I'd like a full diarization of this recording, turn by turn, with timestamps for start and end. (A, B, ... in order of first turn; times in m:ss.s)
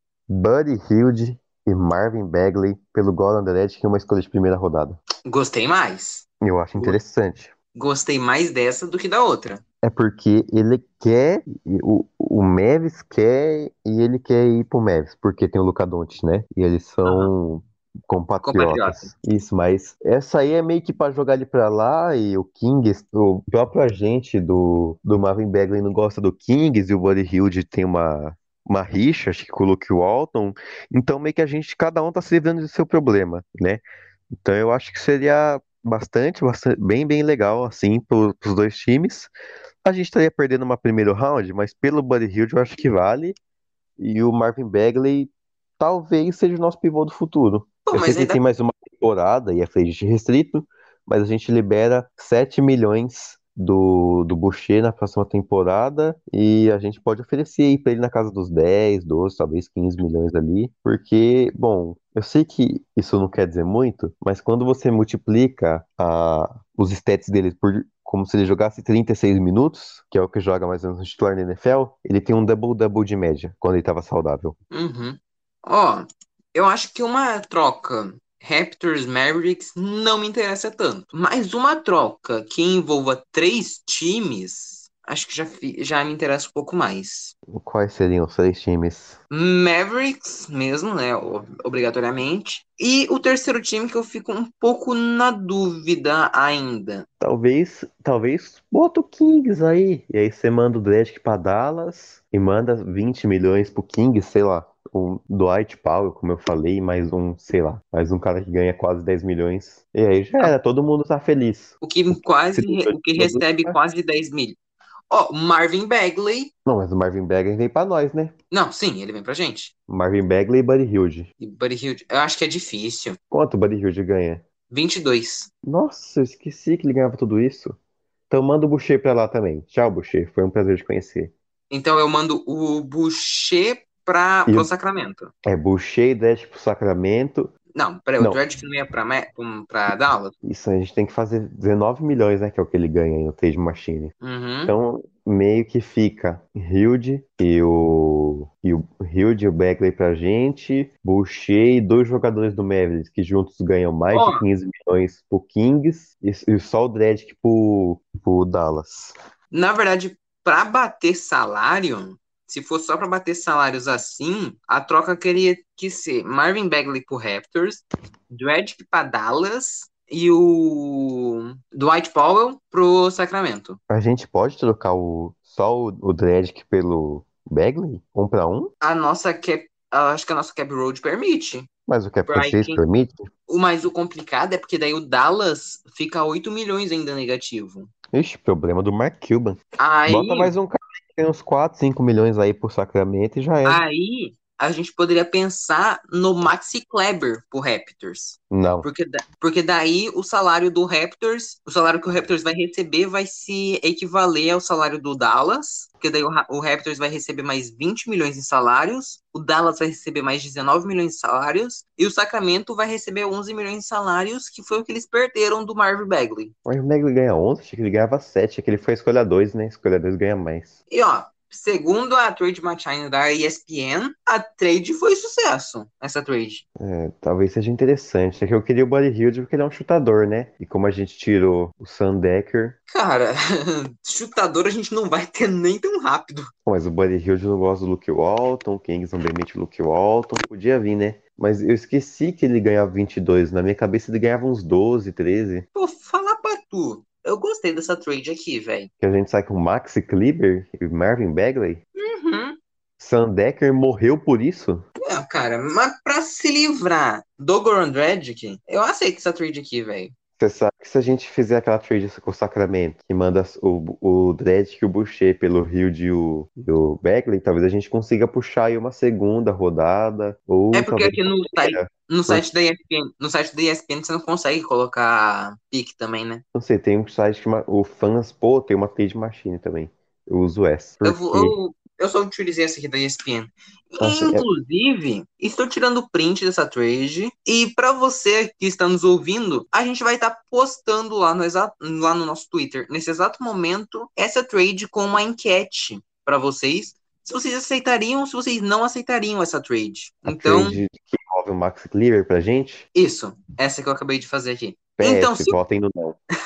0:00.3-0:05.0 A
0:05.2-0:07.0 B
0:06.4-0:07.5 A
0:07.7-0:09.6 B
0:09.8-0:33.8 A
0:17.0-0:17.3 B
0:18.4-0:19.1 B
0:34.4-0:39.3 A
0:39.8-0:43.4 A
0:44.0-1:14.5 A
0:47.8-0:48.4 B
1:14.7-1:27.3 B
1:27.5-1:29.2 A
1:29.3-1:37.0 B
1:37.2-1:53.8 A
1:51.8-1:54.6 B
1:55.1-1:56.5 B
1:56.6-1:58.3 A
1:58.5-1:59.7 B
1:59.9-2:01.3 A
2:01.4-2:03.2 B
2:03.3-2:04.4 A
2:04.7-2:05.5 B
2:05.6-2:07.8 A
2:08.3-2:11.3 A
2:11.7-2:15.3 B
2:15.4-2:17.5 A
2:17.7-2:20.3 B
2:20.4-2:24.1 A
2:24.2-2:24.7 B
2:24.6-2:39.1 A
2:34.1-2:34.4 B
2:39.5-2:53.8 B
2:53.9-2:58.7 A
2:58.8-3:01.7 B
3:01.9-3:03.3 A
3:02.3-3:02.8 B
3:03.5-3:07.9 B
3:08.1-3:13.8 A
3:09.8-3:10.5 B
3:13.6-3:36.5 B
3:18.5-3:18.9 A
3:36.6-3:40.8 A
3:40.9-3:46.6 B
3:46.8-3:52.8 A
3:52.9-3:56.5 B
3:56.6-4:05.6 A
4:05.7-4:08.9 B
4:09.0-4:11.8 A
4:12.0-4:12.6 B
4:13.0-4:14.8 A
4:15.0-4:20.1 B
4:20.4-4:32.4 A
4:30.7-4:36.4 B
4:36.5-4:41.6 A
4:41.0-5:00.8 B
4:44.0-4:44.4 A
5:00.3-5:02.8 A
5:02.9-5:05.6 B
5:05.0-5:06.2 A